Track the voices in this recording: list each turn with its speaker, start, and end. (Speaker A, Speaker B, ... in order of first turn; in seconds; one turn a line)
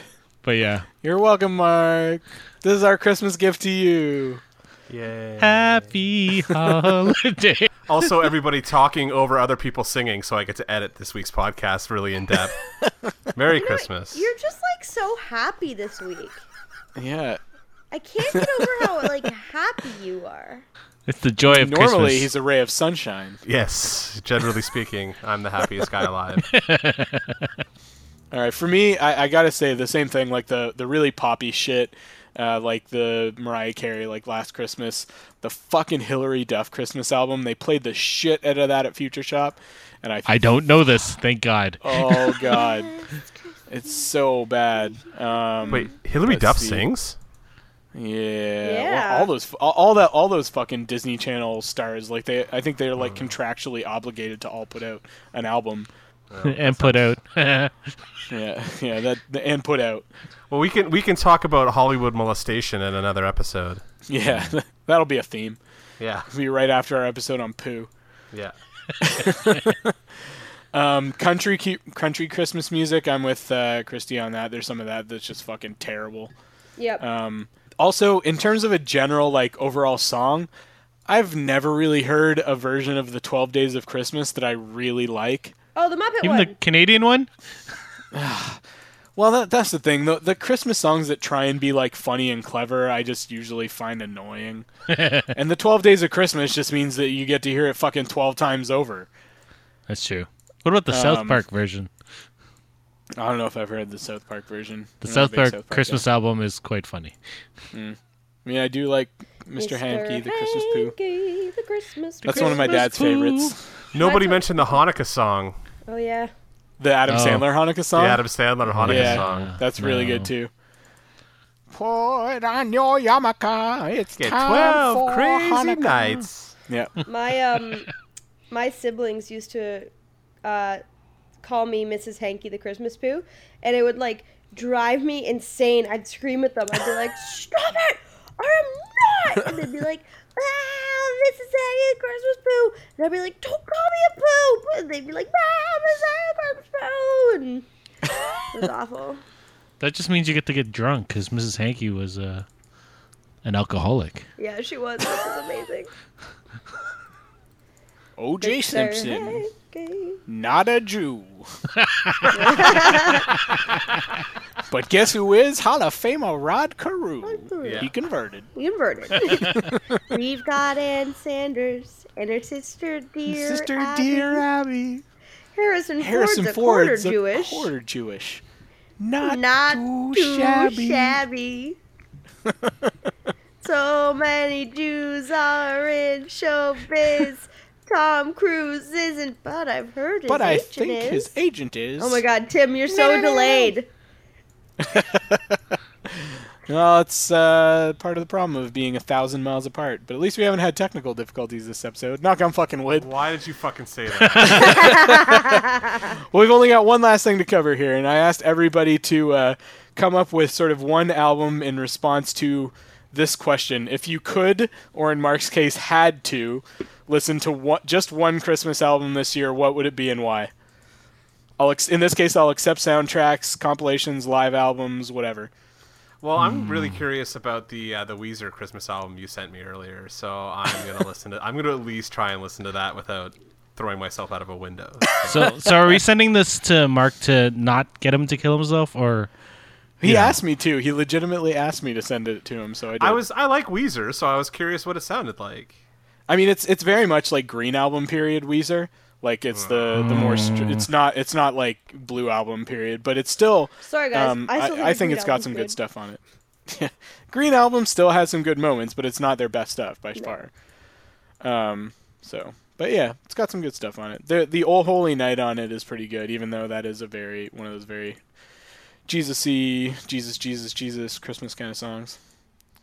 Speaker A: 0.4-0.9
Speaker B: 1.0-4.4
Speaker C: 4.9-5.9
Speaker A: 5.4-8.1
Speaker C: 7.9-12.6
Speaker C: 13.3-14.3
Speaker D: 13.5-16.4
Speaker B: 17.0-17.4
Speaker D: 17.9-20.6
Speaker B: 18.3-18.9
Speaker A: 21.1-22.3
Speaker B: 21.5-23.4
Speaker C: 23.4-26.5
Speaker A: 26.4-27.5
Speaker B: 28.3-40.8
Speaker A: 40.3-42.5
Speaker B: 41.8-43.0
Speaker D: 42.3-43.2
Speaker B: 43.7-46.9
Speaker C: 45.7-47.2
Speaker B: 47.9-55.9
Speaker D: 48.6-49.3
Speaker C: 53.0-53.3
Speaker C: 56.3-57.1
Speaker A: 56.4-57.8
Speaker B: 58.3-60.1
Speaker C: 60.5-63.8
Speaker B: 64.1-65.6
Speaker A: 64.3-64.5
Speaker C: 66.0-66.3
Speaker B: 66.3-67.9
Speaker B: 69.0-70.0
Speaker B: 70.7-76.3
Speaker D: 76.8-77.0
Speaker B: 77.0-80.5
Speaker B: 81.1-85.5
Speaker D: 85.8-86.5
Speaker A: 86.2-87.3
Speaker B: 88.1-88.6
Speaker B: 89.2-94.7
Speaker A: 94.9-95.3
Speaker B: 95.3-99.1
Speaker A: 99.9-101.9
Speaker B: 100.9-101.4
Speaker B: 103.2-106.0
Speaker A: 105.0-107.2
Speaker B: 107.7-110.9
Speaker D: 109.6-114.8
Speaker A: 112.2-113.2
Speaker B: 112.3-113.6
Speaker C: 113.9-115.6
Speaker D: 115.9-116.3
Speaker B: 116.8-118.3
Speaker A: 117.1-117.5
Speaker C: 117.9-119.6
Speaker A: 118.7-120.3
Speaker B: 118.8-120.5
Speaker B: 121.7-127.0
Speaker C: 124.2-126.5
Speaker D: 127.0-127.9
Speaker D: 128.5-129.9
Speaker D: 130.4-130.8
Speaker D: 131.4-147.7
Speaker D: 148.5-149.2
Speaker A: 149.8-152.5
Speaker A: 153.4-154.3
Speaker D: 154.4-155.9
Speaker B: 158.2-159.4
Speaker D: 158.4-160.2
Speaker B: 160.3-161.5
Speaker A: 161.8-164.0
Speaker D: 162.3-163.3
Speaker B: 162.4-162.9
Speaker B: 164.7-168.5
Speaker D: 167.2-167.9
Speaker C: 167.6-167.9
Speaker D: 168.6-174.4
Speaker B: 169.3-170.0
Speaker B: 173.3-175.0
Speaker D: 175.6-177.7
Speaker B: 176.0-178.4
Speaker B: 179.0-181.2
Speaker D: 179.2-181.8
Speaker B: 182.4-182.9
Speaker D: 183.6-191.3
Speaker B: 190.3-192.2
Speaker D: 192.0-193.9
Speaker B: 192.9-193.7
Speaker B: 194.8-203.1
Speaker C: 203.0-205.2
Speaker A: 204.2-204.9
Speaker B: 204.4-220.5
Speaker D: 204.9-206.1
Speaker B: 221.6-225.5
Speaker C: 226.2-235.6
Speaker A: 226.4-227.0
Speaker B: 235.2-235.8
Speaker A: 235.2-239.3
Speaker B: 240.0-243.2
Speaker A: 240.0-240.4
Speaker C: 243.0-245.7
Speaker B: 246.3-260.5
Speaker C: 249.5-250.0
Speaker A: 249.9-250.9
Speaker D: 253.8-255.8
Speaker B: 261.4-268.2
Speaker B: 269.1-272.2